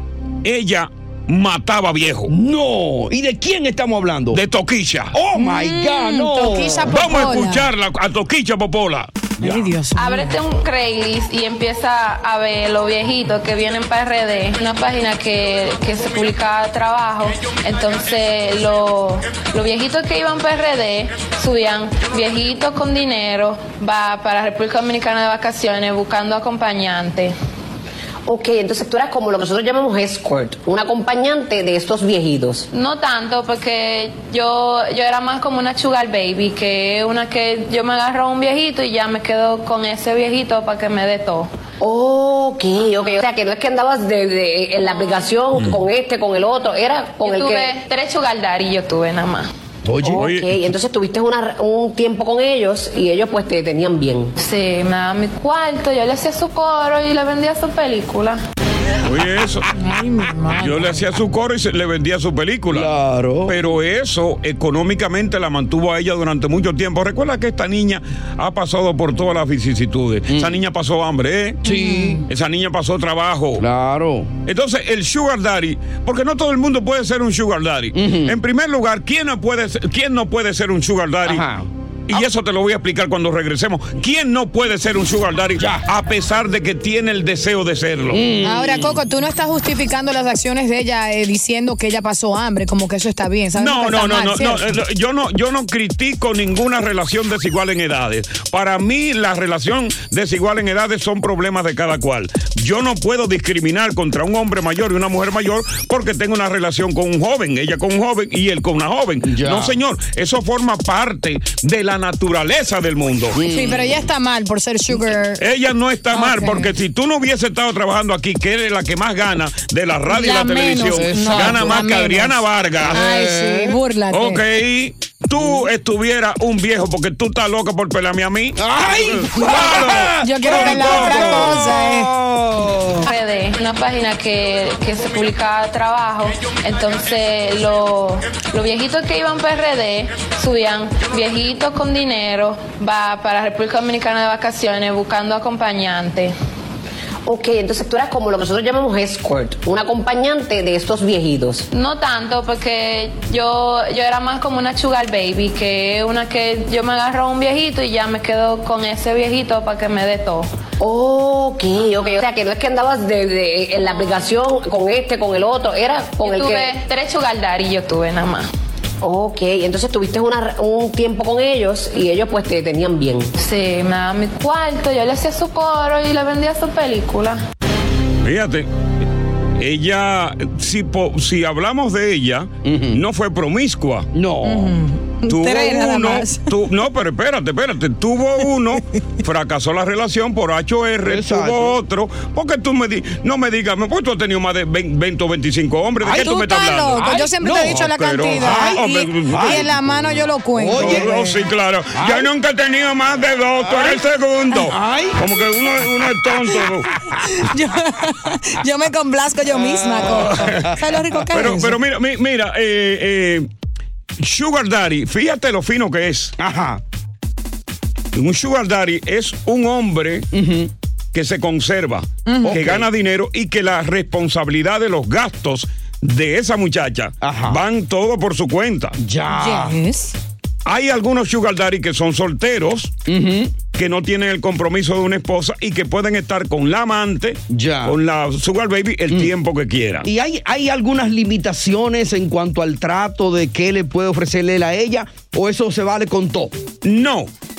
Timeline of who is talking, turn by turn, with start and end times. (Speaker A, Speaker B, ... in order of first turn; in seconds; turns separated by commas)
Speaker A: 0.4-2.3, Speaker B: 2.3-4.4, Speaker A: 4.3-5.2, Speaker B: 5.1-7.0, Speaker C: 5.3-7.7, Speaker A: 6.9-9.1, Speaker B: 9.4-9.7, Speaker C: 9.4-10.3, Speaker D: 9.9-27.3, Speaker E: 28.2-32.7, Speaker D: 32.7-41.5, Speaker E: 41.8-47.8, Speaker D: 47.2-49.5, Speaker B: 49.9-50.2, Speaker E: 50.0-54.3, Speaker A: 50.1-50.5, Speaker D: 54.4-58.4, Speaker A: 59.0-59.7, Speaker C: 59.8-61.0, Speaker A: 60.5-62.9, Speaker B: 62.7-63.6, Speaker A: 63.5-71.6, Speaker B: 71.6-72.2, Speaker C: 71.7-72.2, Speaker A: 72.3-73.6, Speaker B: 73.6-74.3, Speaker A: 74.5-81.4, Speaker B: 77.9-78.4, Speaker B: 81.2-81.7, Speaker A: 82.1-88.2, Speaker B: 85.6-85.8, Speaker B: 88.1-89.0, Speaker C: 88.4-94.8, Speaker A: 93.5-113.4, Speaker B: 109.2-109.8, Speaker B: 113.3-114.0, Speaker C: 113.5-115.4, Speaker A: 115.4-123.0, Speaker C: 116.1-116.7, Speaker C: 120.1-122.4, Speaker B: 120.9-121.8, Speaker B: 122.8-123.8, Speaker C: 122.9-124.4, Speaker A: 124.1-131.6, Speaker B: 128.6-133.1, Speaker C: 130.2-132.1, Speaker D: 133.0-146.3, Speaker E: 147.2-151.7, Speaker D: 151.7-160.5, Speaker E: 160.8-166.8, Speaker D: 166.2-168.5, Speaker E: 169.0-173.3, Speaker D: 173.4-177.4, Speaker A: 178.2-178.7, Speaker A: 179.6-184.1, Speaker B: 182.6-183.0, Speaker B: 184.1-184.8, Speaker C: 184.4-186.5, Speaker A: 185.3-199.8, Speaker B: 191.0-191.8, Speaker C: 196.0-201.4, Speaker B: 197.1-197.8, Speaker B: 198.4-199.7, Speaker B: 200.5-201.1, Speaker A: 200.7-206.9, Speaker B: 201.9-202.3, Speaker B: 203.6-204.0, Speaker B: 204.6-205.2, Speaker C: 207.2-211.8, Speaker B: 209.5-210.7, Speaker A: 210.0-213.5, Speaker A: 214.2-216.3, Speaker B: 216.4-216.8, Speaker A: 218.1-220.3, Speaker B: 220.3-220.7, Speaker A: 221.1-228.9, Speaker C: 222.2-222.6, Speaker B: 222.4-222.9, Speaker B: 227.2-227.6, Speaker B: 229.0-229.8, Speaker C: 229.3-230.1, Speaker A: 230.7-232.9, Speaker B: 233.1-233.5, Speaker A: 233.7-240.1, Speaker B: 237.5-237.9, Speaker B: 240.0-246.5, Speaker A: 246.8-247.3